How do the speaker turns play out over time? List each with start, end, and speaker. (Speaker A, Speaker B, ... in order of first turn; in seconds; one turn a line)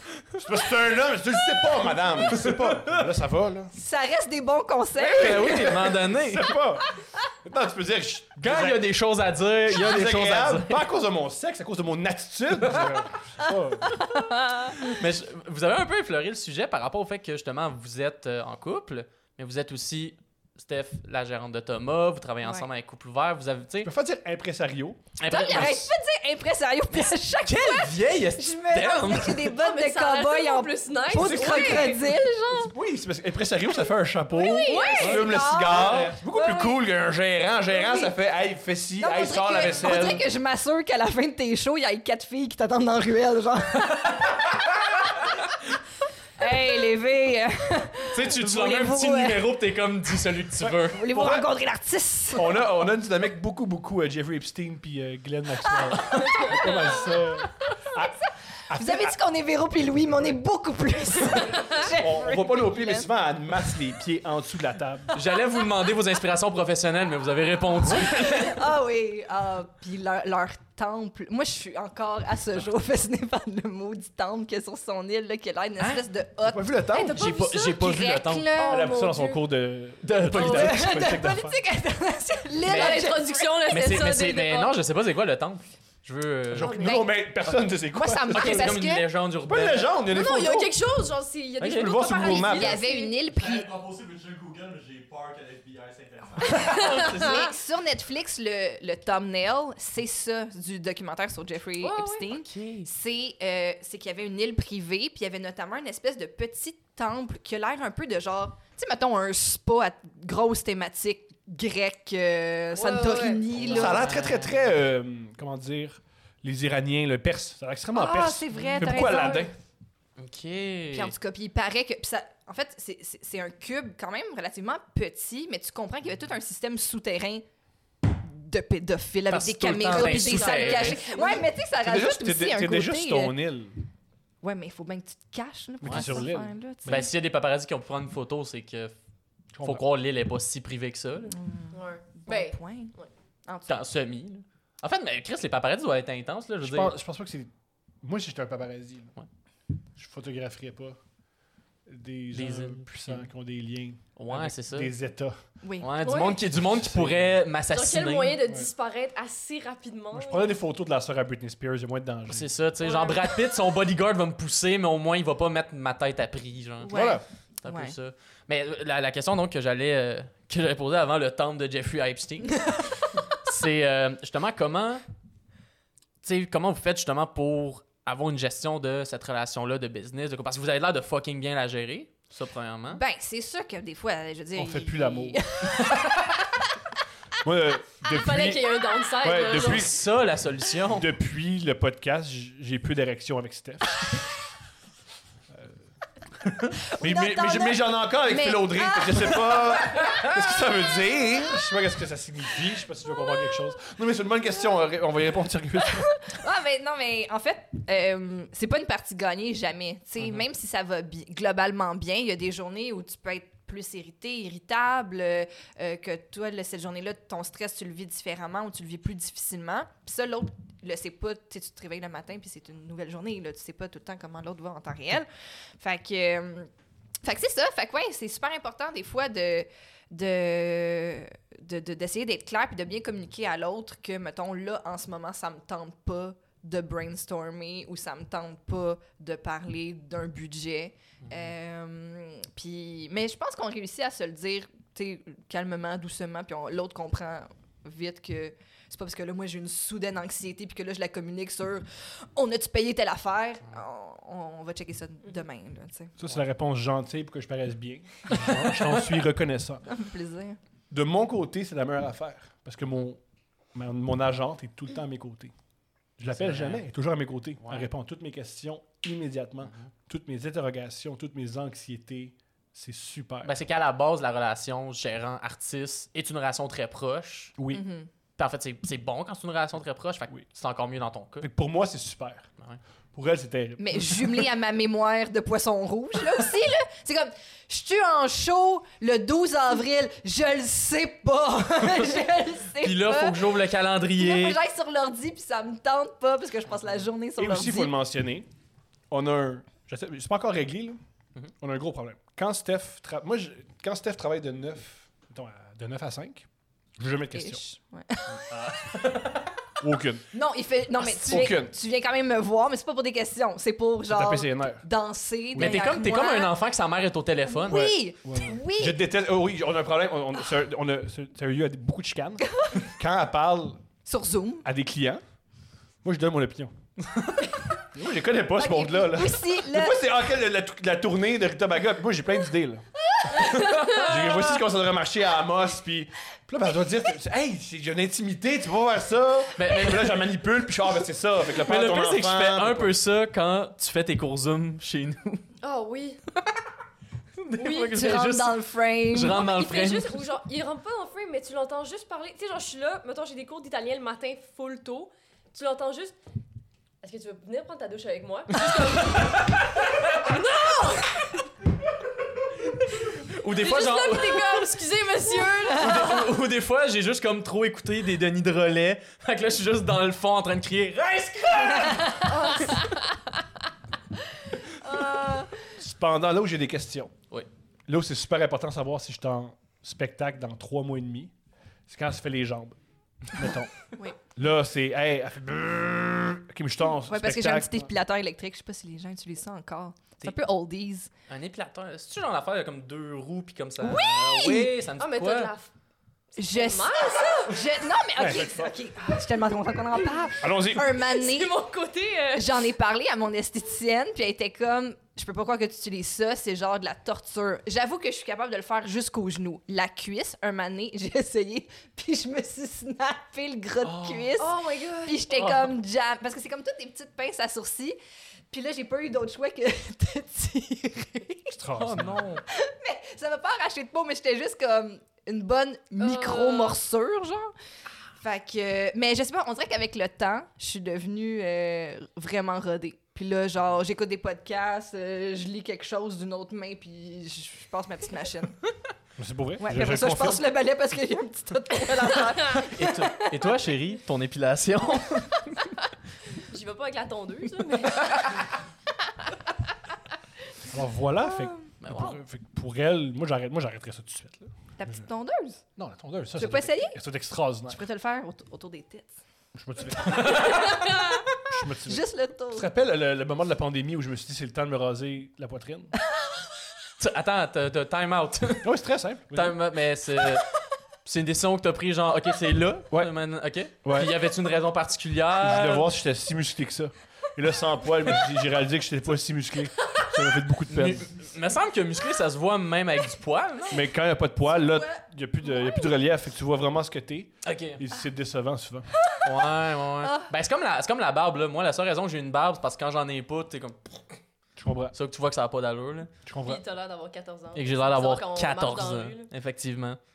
Speaker A: 0.4-3.7
Speaker B: 2.2-3.1
Speaker C: 3.7-5.7
Speaker A: 5.0-8.9
Speaker B: 5.0-6.5
Speaker B: 8.4-10.8
Speaker A: 9.7-14.0
Speaker B: 12.6-13.0
Speaker C: 13.9-14.8
Speaker B: 14.7-23.9
Speaker A: 23.8-25.1
Speaker B: 25.2-25.9
Speaker C: 25.3-32.7
Speaker B: 26.9-29.5
Speaker D: 29.5-32.1
Speaker A: 31.1-40.3
Speaker C: 34.3-36.8
Speaker D: 34.5-35.8
Speaker B: 35.0-35.2
Speaker C: 37.7-38.1
Speaker C: 39.0-44.1
Speaker C: 46.4-49.5
Speaker B: 48.1-51.0
Speaker A: 50.6-51.5
Speaker C: 50.9-52.6
Speaker A: 52.3-58.1
Speaker A: 58.7-59.1
Speaker C: 58.7-63.1
Speaker A: 61.9-65.2
Speaker B: 65.1-68.6
Speaker C: 67.9-78.9
Speaker A: 76.4-77.2
Speaker D: 76.9-77.8
Speaker B: 77.1-78.5
Speaker D: 78.5-79.4
Speaker A: 78.7-81.6
Speaker B: 80.0-80.8
Speaker D: 80.3-80.8
Speaker C: 80.3-83.6
Speaker D: 82.6-84.7
Speaker B: 82.6-86.8
Speaker A: 86.5-88.8
Speaker D: 86.6-87.0
Speaker C: 86.8-89.0
Speaker B: 88.3-89.9
Speaker A: 89.4-90.7
Speaker D: 90.1-93.1
Speaker B: 91.6-92.0
Speaker A: 91.6-92.8
Speaker C: 92.2-93.7
Speaker E: 93.3-96.7
Speaker C: 96.4-114.1
Speaker B: 96.5-97.5
Speaker D: 96.7-97.5
Speaker D: 101.8-102.2
Speaker B: 102.3-102.9
Speaker D: 112.7-113.9
Speaker A: 113.5-119.5
Speaker B: 113.8-114.6
Speaker C: 117.9-119.5
Speaker D: 119.0-119.4
Speaker B: 120.2-121.1
Speaker C: 120.9-127.4
Speaker C: 128.0-133.3
Speaker B: 129.3-131.0
Speaker D: 129.8-131.4
Speaker A: 131.8-133.7
Speaker C: 134.4-137.0
Speaker A: 135.8-137.1
Speaker B: 135.8-136.2
Speaker B: 136.8-138.9
Speaker A: 139.5-139.8
Speaker B: 139.6-141.3
Speaker C: 141.3-143.8
Speaker D: 141.7-143.1
Speaker B: 143.7-146.9
Speaker A: 146.6-147.5
Speaker A: 148.0-149.2
Speaker A: 149.9-151.0
Speaker A: 151.8-155.3
Speaker B: 152.3-153.3
Speaker B: 154.2-154.9
Speaker C: 155.6-155.9
Speaker B: 155.8-158.4
Speaker D: 156.0-156.4
Speaker A: 156.5-157.3
Speaker D: 157.7-160.6
Speaker A: 160.1-162.5
Speaker B: 162.3-167.0
Speaker D: 162.8-163.3
Speaker C: 166.8-167.9
Speaker A: 166.9-167.2
Speaker B: 167.6-175.0
Speaker B: 176.2-183.0
Speaker C: 182.9-186.3
Speaker A: 184.5-185.4
Speaker A: 187.4-190.0
Speaker D: 188.0-189.9
Speaker B: 189.4-191.1
Speaker A: 190.9-194.2
Speaker C: 196.9-199.9
Speaker A: 197.0-206.1
Speaker C: 205.9-225.3
Speaker C: 225.8-226.7
Speaker C: 227.2-256.1
Speaker B: 241.2-241.5
Speaker A: 256.2-259.8
Speaker B: 258.3-259.0
Speaker C: 259.9-260.6
Speaker A: 260.9-263.2
Speaker A: 263.7-265.5
Speaker A: 266.2-273.5
Speaker B: 266.3-266.8
Speaker B: 267.6-267.9
Speaker B: 269.6-269.9
Speaker B: 273.4-277.5
Speaker A: 277.6-277.8
Speaker C: 277.7-278.1
Speaker B: 278.4-281.5
Speaker A: 281.4-282.5
Speaker A: 283.1-284.4
Speaker C: 283.8-293.5
Speaker B: 291.8-292.2
Speaker B: 292.8-294.6
Speaker C: 294.2-297.9
Speaker A: 297.4-298.5
Speaker A: 299.1-301.0
Speaker A: 301.6-307.6
Speaker C: 307.3-309.0
Speaker B: 308.4-309.5
Speaker A: 309.8-310.2
Speaker C: 310.3-316.5
Speaker A: 311.0-311.7
Speaker A: 314.1-314.8
Speaker A: 315.5-315.9
Speaker B: 315.6-317.9
Speaker C: 317.5-319.0
Speaker A: 317.7-323.8
Speaker C: 324.1-324.6
Speaker A: 324.6-325.2
Speaker A: 326.0-326.7
Speaker B: 327.1-327.4
Speaker A: 327.9-332.8
Speaker C: 328.6-330.0
Speaker B: 333.3-334.6
Speaker A: 334.0-342.9
Speaker B: 339.6-340.2
Speaker B: 341.6-345.4
Speaker D: 345.6-346.2
Speaker B: 347.4-348.6
Speaker D: 347.6-348.2
Speaker C: 347.9-349.5
Speaker B: 349.1-350.2
Speaker D: 349.4-356.1
Speaker D: 357.0-361.4
Speaker B: 358.6-360.1
Speaker B: 363.1-364.8
Speaker D: 363.6-366.3
Speaker B: 365.7-372.8
Speaker C: 372.1-372.8
Speaker D: 372.5-372.8
Speaker C: 374.8-375.6
Speaker A: 375.8-377.1
Speaker A: 377.9-381.3
Speaker A: 381.9-382.8
Speaker A: 383.3-387.9
Speaker C: 387.1-391.1
Speaker B: 391.3-395.5
Speaker C: 393.8-394.8
Speaker D: 395.0-395.7
Speaker D: 396.3-397.6
Speaker C: 396.4-401.6
Speaker A: 398.2-398.7
Speaker A: 400.4-401.0
Speaker D: 401.0-402.5
Speaker C: 402.3-418.0
Speaker B: 413.8-414.4
Speaker D: 414.4-415.2
Speaker C: 418.5-421.6
Speaker A: 421.6-422.2
Speaker B: 421.8-422.4
Speaker C: 422.5-427.5
Speaker D: 426.0-426.8
Speaker C: 428.2-438.6
Speaker A: 439.2-440.4
Speaker C: 439.6-443.2
Speaker B: 442.6-445.7
Speaker D: 446.5-448.2
Speaker A: 450.6-455.0
Speaker C: 451.4-451.7
Speaker B: 451.8-452.2
Speaker C: 454.8-455.6
Speaker A: 455.8-457.8
Speaker C: 456.4-457.0
Speaker C: 457.7-459.1
Speaker A: 459.5-460.9
Speaker B: 460.1-460.8
Speaker A: 461.4-465.9
Speaker C: 461.8-462.7
Speaker B: 467.0-468.7
Speaker A: 468.6-469.6
Speaker B: 469.3-470.5
Speaker B: 471.0-475.9
Speaker A: 473.8-474.1
Speaker A: 475.4-481.1
Speaker B: 480.7-483.8
Speaker A: 483.7-488.9
Speaker B: 487.4-487.8
Speaker B: 489.2-494.2
Speaker C: 490.0-490.3
Speaker A: 494.6-494.9
Speaker B: 494.9-496.1
Speaker A: 496.2-496.6
Speaker D: 496.4-499.3
Speaker B: 497.5-500.0